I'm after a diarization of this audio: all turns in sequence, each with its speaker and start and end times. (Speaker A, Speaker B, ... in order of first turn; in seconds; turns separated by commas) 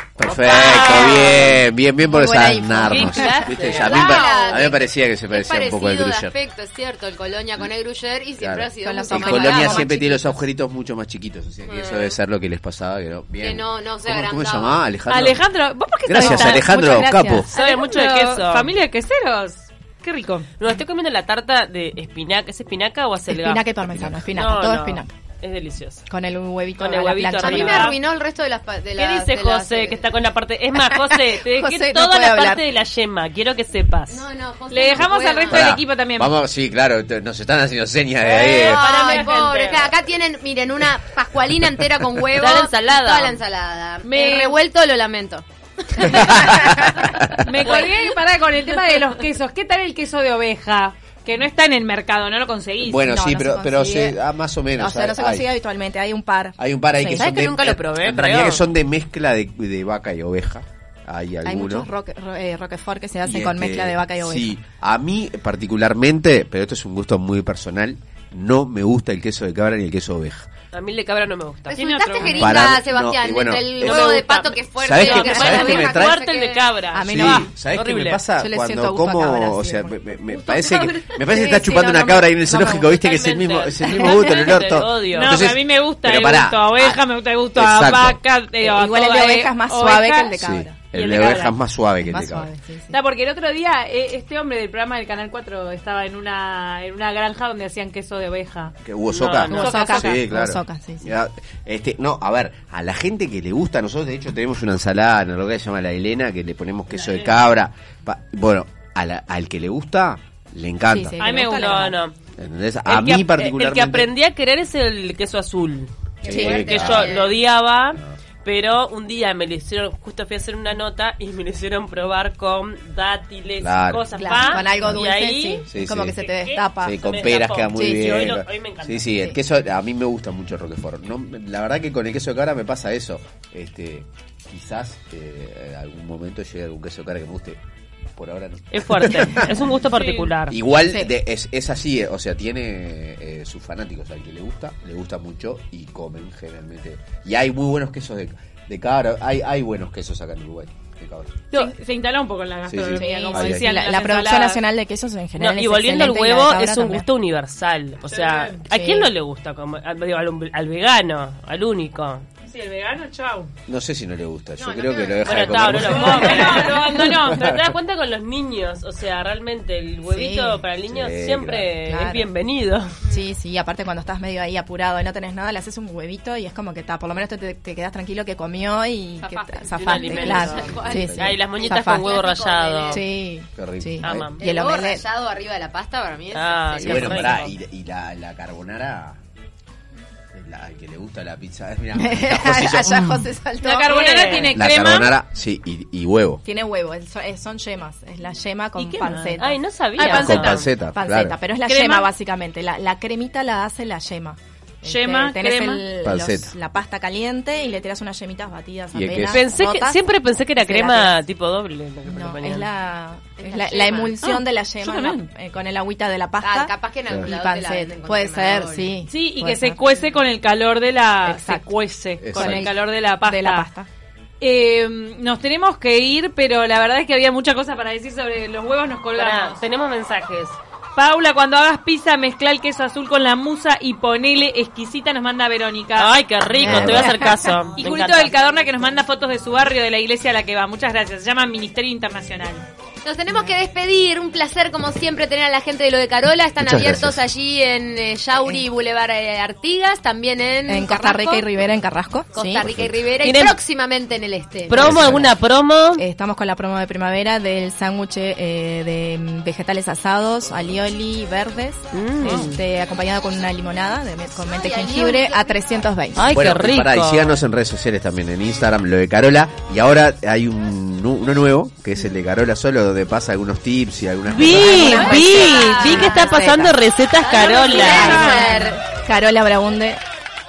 Speaker A: 0.2-6.3, Speaker B: 0.3-1.6, Speaker C: 0.5-0.9, Speaker D: 0.7-1.2, Speaker E: 2.0-4.0, Speaker D: 2.8-4.2, Speaker B: 3.0-4.3, Speaker C: 3.7-9.9, Speaker A: 8.4-15.4, Speaker E: 8.8-10.4, Speaker C: 11.6-12.2, Speaker C: 13.4-14.8, Speaker B: 15.1-20.5, Speaker A: 16.0-17.5, Speaker E: 16.2-16.6, Speaker D: 17.5-18.7, Speaker D: 20.6-23.6, Speaker E: 23.3-25.1, Speaker A: 23.8-24.3, Speaker D: 24.3-26.0, Speaker E: 26.1-27.9, Speaker D: 26.8-27.9, Speaker B: 27.4-28.0, Speaker C: 27.4-30.1, Speaker D: 28.9-34.2, Speaker E: 30.9-32.7, Speaker C: 34.1-35.7, Speaker B: 34.7-36.3, Speaker A: 35.5-38.8, Speaker B: 38.2-39.9, Speaker C: 38.3-49.0, Speaker D: 42.4-43.4, Speaker B: 44.0-44.6, Speaker A: 46.0-47.4, Speaker B: 47.4-53.0, Speaker A: 52.8-55.5, Speaker E: 53.0-54.2, Speaker E: 54.7-57.3, Speaker A: 56.6-61.9, Speaker D: 57.1-58.6, Speaker E: 61.4-64.5, Speaker A: 63.2-70.5, Speaker D: 70.7-72.5, Speaker C: 71.7-76.7, Speaker B: 71.7-72.5, Speaker A: 72.2-74.3, Speaker D: 73.9-78.2, Speaker A: 74.8-76.2, Speaker E: 75.3-75.7, Speaker E: 76.9-77.5, Speaker A: 77.0-87.0, Speaker E: 78.4-80.0, Speaker B: 80.4-81.2, Speaker E: 81.2-83.0, Speaker D: 82.9-85.3, Speaker B: 85.1-90.4, Speaker A: 87.5-88.2, Speaker E: 88.6-90.9, Speaker A: 90.4-92.5, Speaker B: 90.9-91.5, Speaker E: 92.0-93.0, Speaker B: 92.9-98.7, Speaker A: 98.8-111.2, Speaker D: 99.1-99.7, Speaker E: 99.5-101.1, Speaker B: 99.5-100.2, Speaker B: 107.0-107.3, Speaker E: 110.9-112.0, Speaker D: 111.2-112.1, Speaker B: 111.2-111.8, Speaker A: 112.4-114.1, Speaker D: 112.8-125.7, Speaker C: 116.2-117.3, Speaker A: 116.2-117.1, Speaker E: 116.3-116.7, Speaker A: 123.6-124.1, Speaker E: 124.2-127.1, Speaker A: 125.7-126.2, Speaker D: 126.2-129.1, Speaker A: 126.8-137.6, Speaker E: 127.7-128.3, Speaker A: 138.2-139.7, Speaker D: 138.7-140.6, Speaker B: 139.9-140.3, Speaker A: 140.5-151.4, Speaker B: 151.5-154.6, Speaker A: 152.7-153.7, Speaker E: 152.9-157.1, Speaker D: 155.4-162.2, Speaker B: 158.1-158.7, Speaker E: 158.7-159.1, Speaker B: 162.4-163.5, Speaker A: 163.7-167.6, Speaker C: 164.6-165.2, Speaker D: 165.2-172.9, Speaker B: 165.7-167.4, Speaker E: 170.0-170.6, Speaker A: 170.9-171.7, Speaker E: 171.8-172.3, Speaker E: 173.1-182.2, Speaker C: 179.2-183.0, Speaker D: 179.7-183.0, Speaker B: 179.9-180.5, Speaker A: 180.2-181.4, Speaker E: 182.9-185.1, Speaker A: 183.6-184.3, Speaker D: 184.0-184.4, Speaker C: 184.4-187.4, Speaker D: 186.3-187.5, Speaker A: 186.8-189.2, Speaker A: 190.3-193.2, Speaker E: 191.9-194.3, Speaker B: 193.6-195.2, Speaker D: 193.8-194.5, Speaker A: 194.5-196.4, Speaker E: 196.4-210.0, Speaker B: 198.8-199.4, Speaker D: 199.3-200.5, Speaker B: 200.0-200.7, Speaker A: 200.0-201.3, Speaker B: 201.6-202.1, Speaker B: 204.8-205.8, Speaker A: 206.0-206.5, Speaker A: 208.9-209.3, Speaker D: 209.3-212.7, Speaker E: 210.6-211.1, Speaker E: 212.1-220.0, Speaker C: 213.4-214.2, Speaker B: 214.2-215.3, Speaker C: 216.4-218.9, Speaker B: 219.1-223.7, Speaker E: 221.2-221.7, Speaker A: 222.2-222.7, Speaker E: 222.3-223.9, Speaker B: 224.4-229.6, Speaker D: 229.1-230.6, Speaker B: 230.9-242.6, Speaker D: 236.0-238.3, Speaker A: 236.6-237.0, Speaker C: 243.0-251.5, Speaker A: 246.6-247.2, Speaker E: 250.7-252.7, Speaker C: 252.3-255.2, Speaker A: 252.7-252.9, Speaker D: 253.2-253.6, Speaker D: 254.7-256.0, Speaker A: 254.7-255.3, Speaker E: 256.0-266.3, Speaker D: 261.9-262.6, Speaker C: 264.4-265.6, Speaker D: 266.1-267.3, Speaker A: 266.3-275.1, Speaker D: 274.3-278.4, Speaker E: 274.5-276.7, Speaker B: 274.6-275.1, Speaker C: 274.7-276.4, Speaker C: 277.2-278.8, Speaker E: 277.4-280.0, Speaker B: 277.7-278.7